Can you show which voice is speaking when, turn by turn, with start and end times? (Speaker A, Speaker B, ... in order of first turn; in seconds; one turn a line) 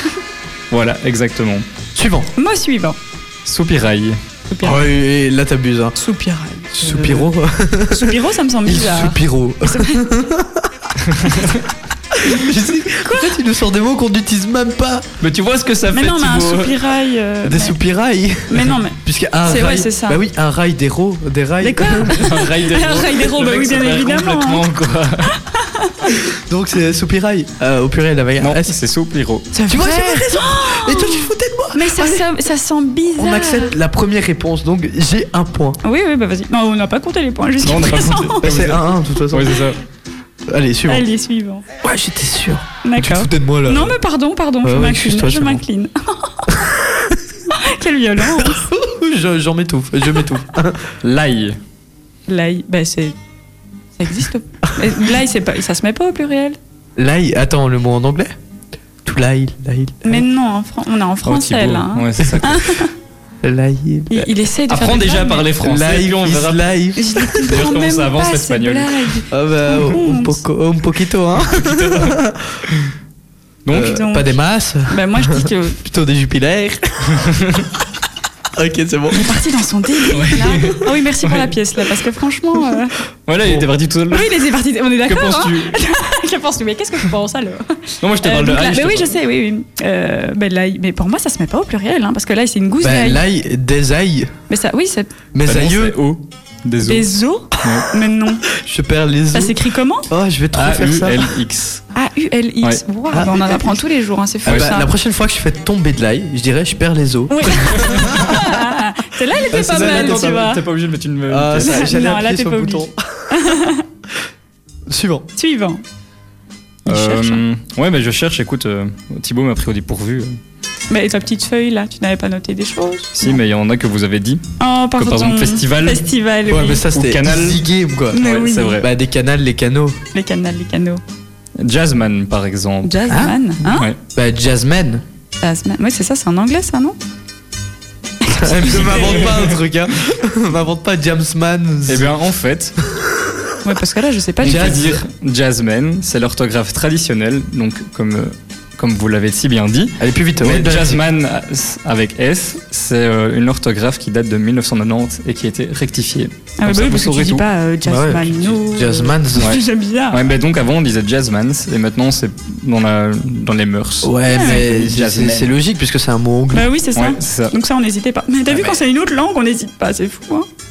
Speaker A: 0.7-1.6
Speaker B: 1.9-2.3
Speaker C: 2.4-3.0
Speaker A: 3.5-4.2
Speaker C: 4.5-4.8
Speaker B: 4.6-6.0
Speaker C: 6.0-7.3
Speaker B: 6.7-11.5
Speaker C: 7.9-10.0
Speaker A: 11.2-11.6
Speaker B: 12.1-15.1
Speaker C: 12.8-13.4
Speaker A: 15.2-16.8
Speaker C: 15.9-17.8
Speaker B: 17.4-22.3
Speaker C: 18.5-20.2
Speaker C: 21.6-24.7
Speaker A: 22.1-25.4
Speaker C: 25.3-26.1
Speaker B: 26.5-28.7
Speaker A: 28.4-29.5
Speaker C: 29.5-33.8
Speaker B: 29.7-32.2
Speaker B: 33.2-35.8
Speaker C: 35.8-38.5
Speaker A: 37.6-39.8
Speaker B: 38.4-39.6
Speaker B: 40.5-41.0
Speaker C: 40.9-41.6
Speaker B: 41.8-43.9
Speaker C: 42.8-46.7
Speaker B: 44.6-45.6
Speaker B: 46.5-47.1
Speaker C: 47.5-48.6
Speaker B: 48.4-50.9
Speaker A: 51.0-51.6
Speaker C: 52.3-53.1
Speaker C: 54.0-56.6
Speaker B: 57.0-58.3
Speaker B: 59.0-60.2
Speaker C: 60.0-62.9
Speaker A: 61.2-62.7
Speaker B: 63.4-64.2
Speaker C: 64.1-65.5
Speaker A: 64.7-66.7
Speaker B: 65.6-67.5
Speaker C: 67.0-70.4
Speaker A: 67.4-68.9
Speaker B: 69.3-72.5
Speaker A: 71.5-72.1
Speaker A: 73.7-73.9
Speaker B: 73.7-77.5
Speaker C: 73.7-74.4
Speaker C: 74.9-75.8
Speaker A: 77.2-77.6
Speaker B: 78.5-79.3
Speaker C: 79.1-82.9
Speaker A: 80.1-81.5
Speaker A: 83.3-84.3
Speaker C: 84.1-93.2
Speaker A: 85.0-85.8
Speaker A: 88.0-89.2
Speaker B: 92.8-94.3
Speaker C: 94.5-95.1
Speaker B: 95.3-96.0
Speaker A: 95.5-97.0
Speaker C: 96.8-98.5
Speaker A: 97.6-97.9
Speaker B: 98.5-99.5
Speaker C: 99.3-100.1
Speaker B: 100.1-101.3
Speaker A: 100.5-101.8
Speaker C: 101.9-104.9
Speaker B: 103.1-103.8
Speaker B: 104.4-108.4
Speaker A: 104.5-104.7
Speaker C: 107.3-110.6
Speaker A: 107.9-108.3
Speaker B: 109.5-110.5
Speaker A: 109.7-112.0
Speaker B: 111.3-113.6
Speaker C: 111.6-113.8
Speaker B: 114.9-115.3
Speaker C: 115.4-115.8
Speaker C: 116.8-117.4
Speaker A: 116.9-120.3
Speaker C: 120.9-123.4
Speaker A: 123.2-124.4
Speaker C: 124.6-126.8
Speaker A: 125.0-126.1
Speaker B: 126.5-128.2
Speaker A: 126.9-128.8
Speaker C: 128.1-128.8
Speaker B: 128.8-130.0
Speaker C: 130.1-131.0
Speaker A: 131.6-133.0
Speaker C: 132.8-133.9
Speaker B: 133.1-133.3
Speaker A: 133.6-134.0
Speaker B: 134.1-135.0
Speaker C: 135.4-137.0
Speaker C: 138.2-139.5
Speaker B: 138.3-142.1
Speaker A: 141.9-142.8
Speaker C: 143.6-144.8
Speaker B: 144.4-145.0
Speaker A: 144.4-157.4
Speaker B: 150.0-151.0
Speaker C: 156.6-160.3
Speaker B: 157.8-159.6
Speaker A: 159.4-165.6
Speaker B: 164.0-166.7
Speaker C: 164.3-164.7
Speaker C: 166.5-170.5
Speaker A: 166.9-167.5